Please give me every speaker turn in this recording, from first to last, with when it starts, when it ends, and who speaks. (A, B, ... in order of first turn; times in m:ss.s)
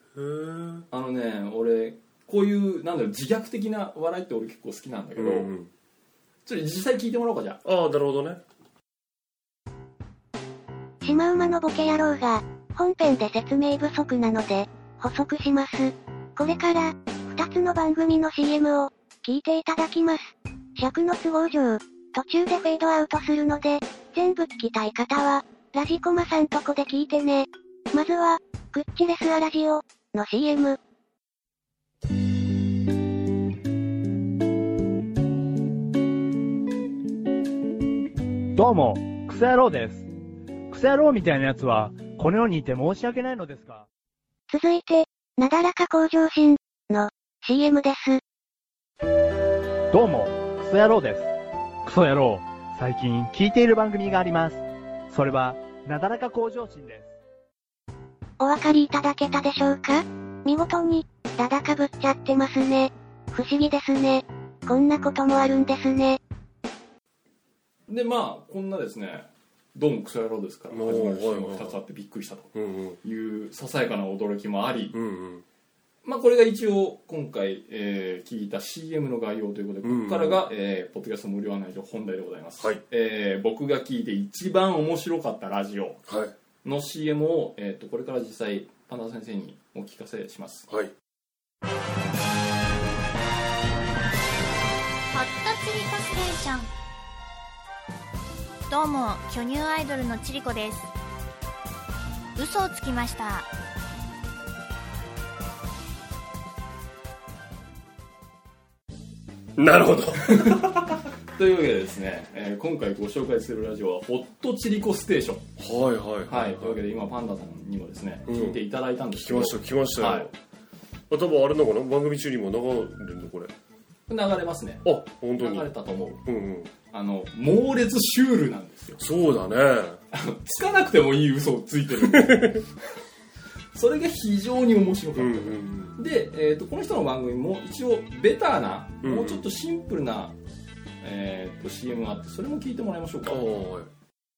0:00.1-0:00.9 A
0:00.9-0:05.5 B
0:05.2-0:05.7 A
0:06.4-0:07.6 B
0:07.6-0:08.4 A
0:11.0-0:30.8 C
0:38.6-0:40.1 D
0:40.7-0:43.9 D
0:44.5-0:48.2 C
0:49.9-0:57.2 D
0:58.4-1:06.2 C
1:07.9-1:12.5 B
1:10.7-1:11.8 A
1:12.5-1:13.0 A
1:13.0-1:15.0 B
1:14.9-1:15.4 A
1:16.0-1:26.0 B
1:19.8-1:20.4 A
1:26.1-1:26.3 A
1:26.6-1:30.7 B
1:35.1-1:36.7 E
1:38.7-1:40.9 E
1:42.4-1:43.5 E
1:49.6-1:50.8 A
1:50.3-1:50.8 B
1:51.3-1:55.5 B
1:55.6-1:56.8 A
1:56.3-2:00.3 B
1:58.3-1:58.6 A
1:59.1-2:00.3 A
2:01.1-2:03.5 A
2:04.1-2:06.2 B
2:04.8-2:05.7 A
2:06.2-2:06.7 A
2:06.9-2:09.0 B
2:09.0-2:10.0 A
2:10.1-2:12.6 B
2:12.1-2:12.6 A
2:13.7-2:20.4 B
2:15.2-2:16.0 A
2:19.0-2:19.4 A
2:21.0-2:23.5 B
2:23.2-2:23.9 A